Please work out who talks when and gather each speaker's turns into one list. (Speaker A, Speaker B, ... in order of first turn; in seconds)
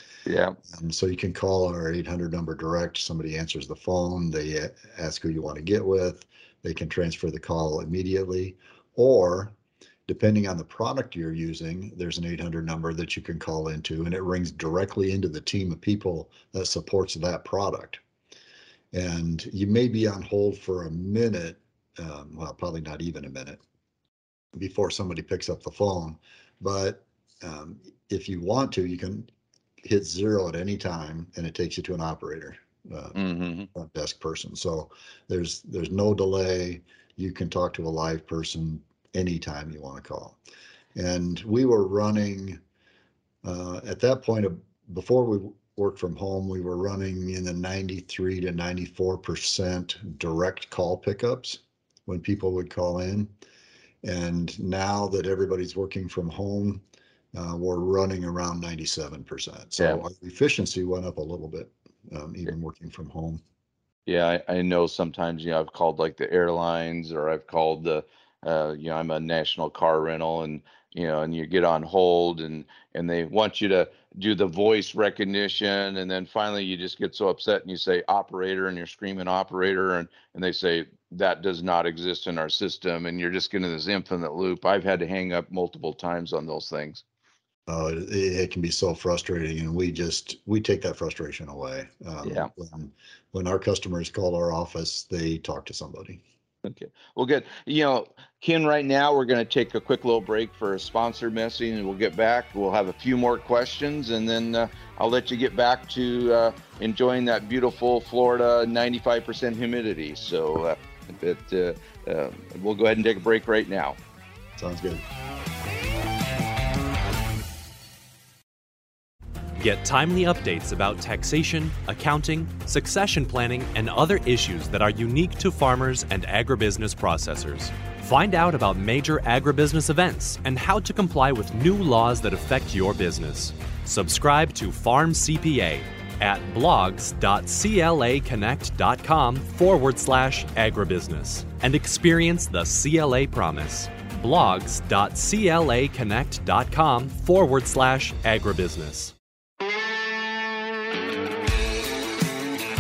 Speaker A: 0.3-0.6, 33.1-33.7, 59.8-60.0, 64.1-87.0, 92.2-92.5, 96.7-114.0
Speaker B: 0.7-9.6, 10.1-18.0, 18.9-23.6, 24.6-29.3, 29.8-33.2, 33.7-40.4, 41.0-42.6, 43.4-53.3, 54.0-56.8, 57.3-63.4, 87.7-96.2, 114.6-115.0
Speaker C: 119.6-149.1